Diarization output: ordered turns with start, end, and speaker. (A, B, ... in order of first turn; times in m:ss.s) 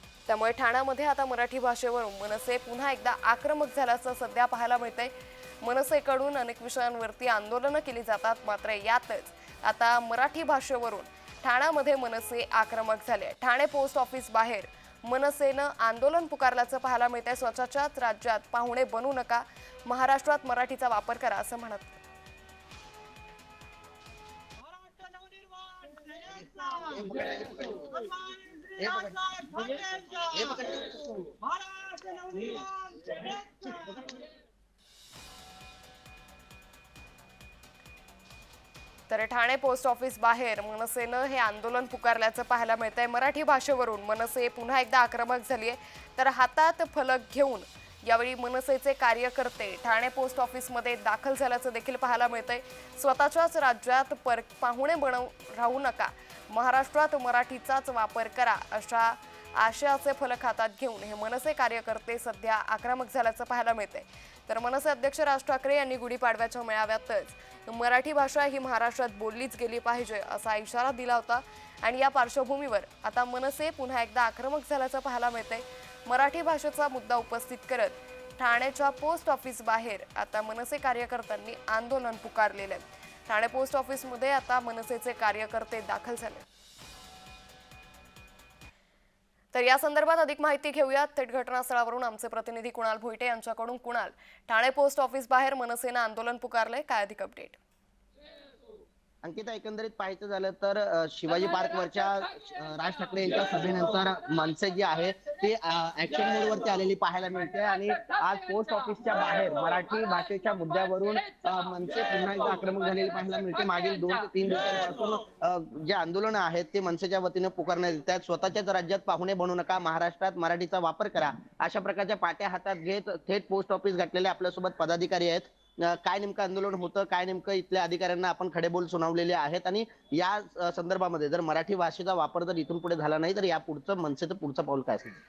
0:00.3-0:22.0 A
0:24.6-0:27.1 B
0:26.7-0:27.9 C
0:27.7-0:30.8 B
0:28.8-0:29.3 C
0:30.3-0:31.0 C
0:31.3-0:34.1 B
0:39.1-1:26.4 A
1:29.5-1:37.6 A
1:39.2-2:15.2 C